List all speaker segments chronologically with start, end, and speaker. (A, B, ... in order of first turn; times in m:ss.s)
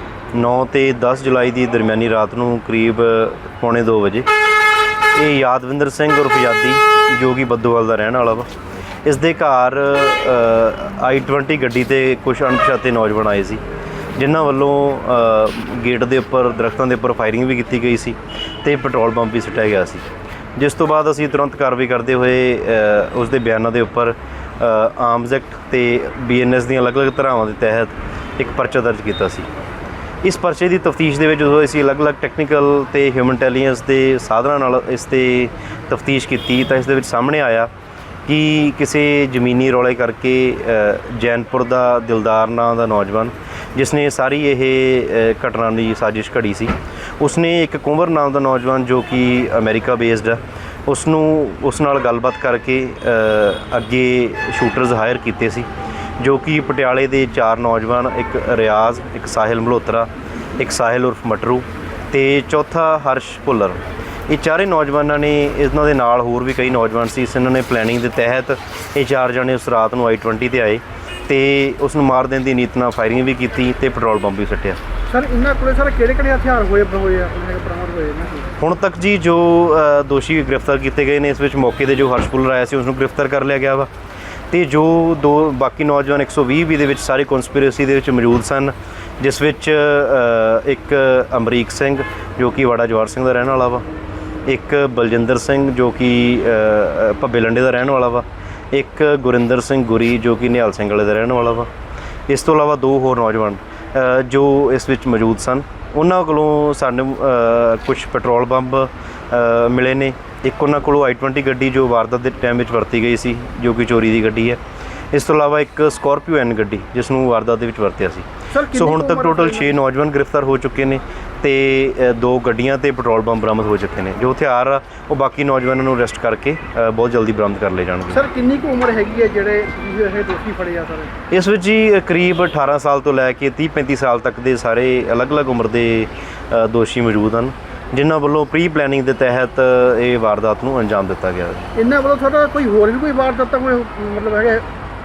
0:00.3-0:04.3 A
0:05.2-0:08.5 A
0:09.0-0:13.6 A
0:14.2-0:20.1 A
0:20.6-0:29.5 A
0:30.2-0:37.7 A
0:38.3-0:55.7 A
0:56.2-1:14.8 A
1:15.1-1:18.5 B
1:18.6-1:23.9 A
1:24.5-1:33.8 A
1:34.5-1:41.7 A
1:42.3-1:54.6 A
1:55.1-2:08.2 A
1:58.5-1:59.8 B
2:08.1-2:11.1 B
2:11.3-2:21.6 A
2:21.8-2:24.7 B